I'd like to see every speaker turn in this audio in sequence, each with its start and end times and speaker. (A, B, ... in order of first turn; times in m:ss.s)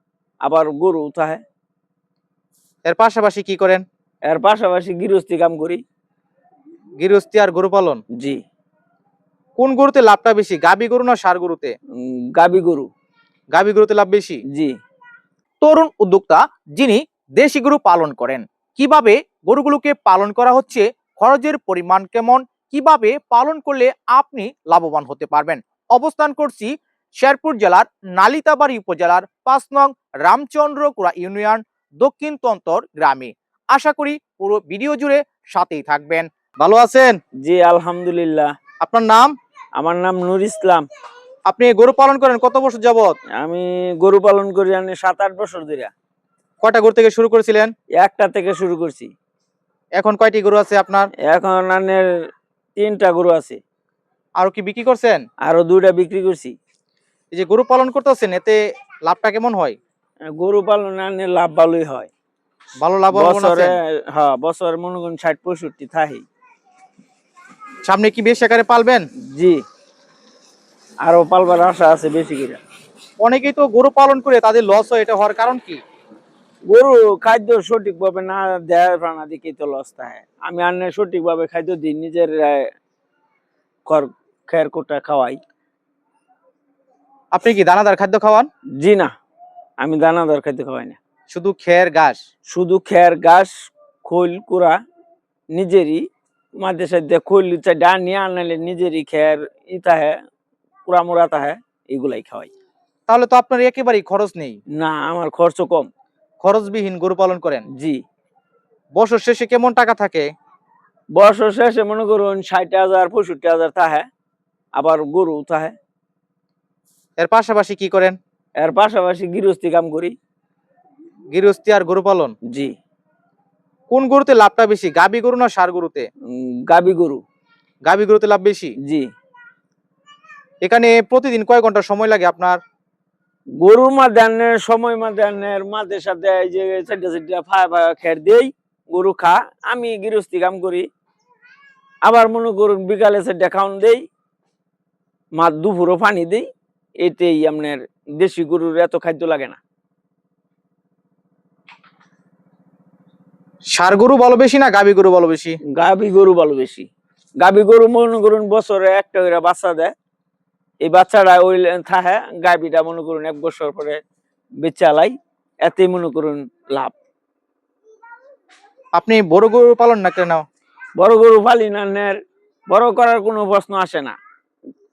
0:00.4-0:01.4 A
0:02.8-0:03.8 B
0:04.2-0:05.8 A
0:07.0-0:08.0 B
0:08.1-0:08.4 A
0:09.6-0:11.7 B
0:12.0-0:12.9 A
0:13.5-0:14.4 B
0:14.5-0:14.8 A
0:15.6-0:37.2 B
0:37.4-0:38.5 A
0:38.8-0:39.3 B
0:39.8-0:40.9 A
0:41.5-0:43.2 B
0:43.4-0:45.9 A
0:46.6-0:47.7 B
0:48.0-0:49.1 A
0:50.0-0:51.1 B
0:51.2-0:52.1 A
0:52.8-0:53.6 A
0:54.4-0:55.2 B
0:55.4-0:56.5 A
0:57.3-0:59.8 B
1:00.3-1:02.1 A
1:02.8-1:03.8 B
1:03.1-1:06.2 A
1:07.8-1:09.1 B
1:09.3-1:09.6 A
1:11.0-1:12.6 A
1:13.2-1:15.8 B
1:16.7-1:22.7 A
1:23.8-1:25.4 A
1:27.3-1:28.5 B
1:28.8-1:29.1 A
1:29.8-1:31.0 A
1:31.3-1:32.2 B
1:32.5-1:33.5 A
1:34.0-1:34.8 A
1:35.5-1:36.0 A
1:36.6-1:40.2 A
1:40.8-1:42.5 A
1:43.1-1:44.6 B
1:44.7-1:45.9 A
1:46.4-1:47.6 B
1:47.7-1:48.0 A
1:48.9-1:50.3 B
1:51.1-1:54.1 A
1:54.8-1:55.8 A
1:57.2-1:58.2 B
1:58.6-2:00.1 A
2:01.3-2:02.3 B
2:02.5-2:02.7 A
2:03.9-2:06.1 B
2:06.3-2:07.2 A
2:07.8-2:08.7 B
2:08.8-2:09.1 A
2:10.6-2:12.6 B
2:13.6-2:20.9 A
2:22.0-2:24.0 A
2:25.4-2:26.4 A
2:27.0-2:29.6 A
2:33.7-2:35.6 B
2:35.7-2:36.9 A
2:37.4-2:39.9 A
2:40.8-2:44.0 A
2:44.6-2:46.9 A
2:48.9-2:50.4 B
2:51.0-2:52.2 A
2:52.7-2:54.2 A